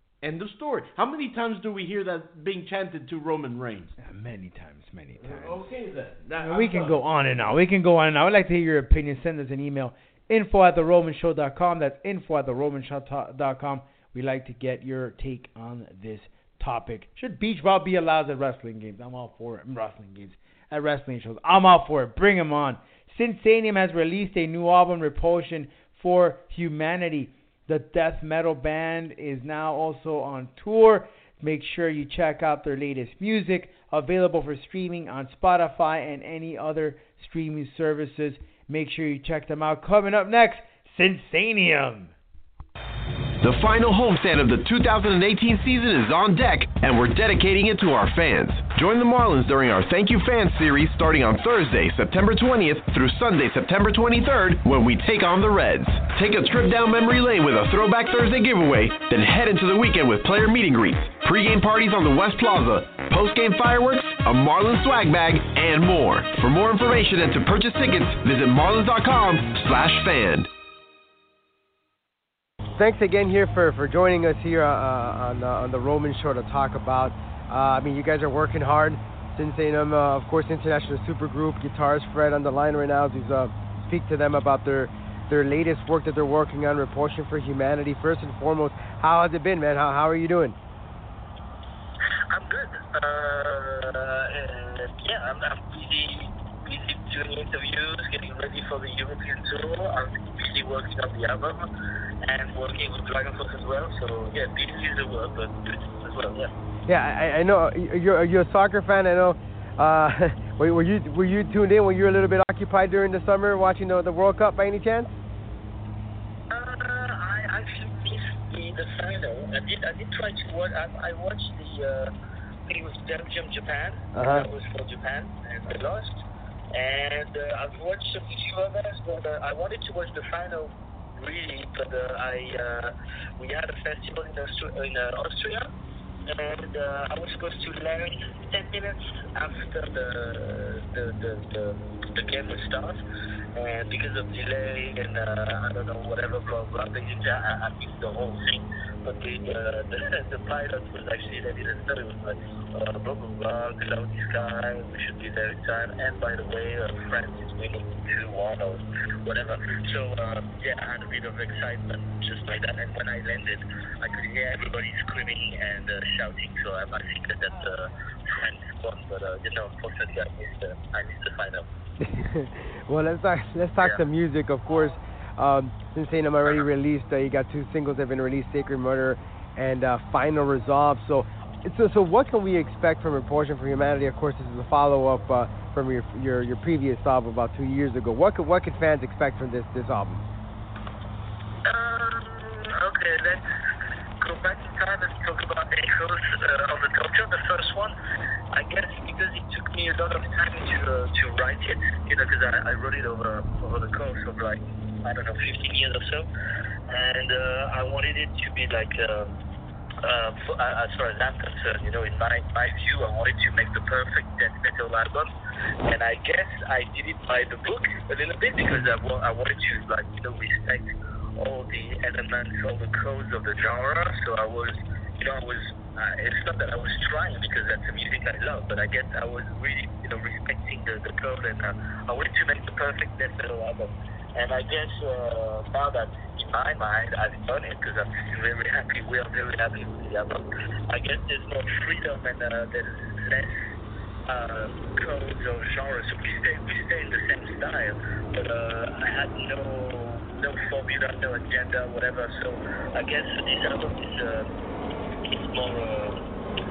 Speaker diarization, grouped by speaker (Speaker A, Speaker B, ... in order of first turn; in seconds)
Speaker A: 0.2-4.0, 5.2-7.0
Speaker B: 4.0-5.7, 6.4-42.1
Speaker C: 43.4-70.5
Speaker D: 72.8-90.6, 106.9-115.1, 124.1-124.5, 172.0-190.2
Speaker E: 92.3-101.7, 102.2-106.5, 116.5-122.1, 122.7-135.7, 136.3-143.0, 143.5-171.7, 173.8-174.1, 191.7-193.4, 194.2-197.9, 198.5-206.3, 206.9-209.3, 210.0-215.3, 215.8-243.6, 244.3-254.5, 255.2-256.2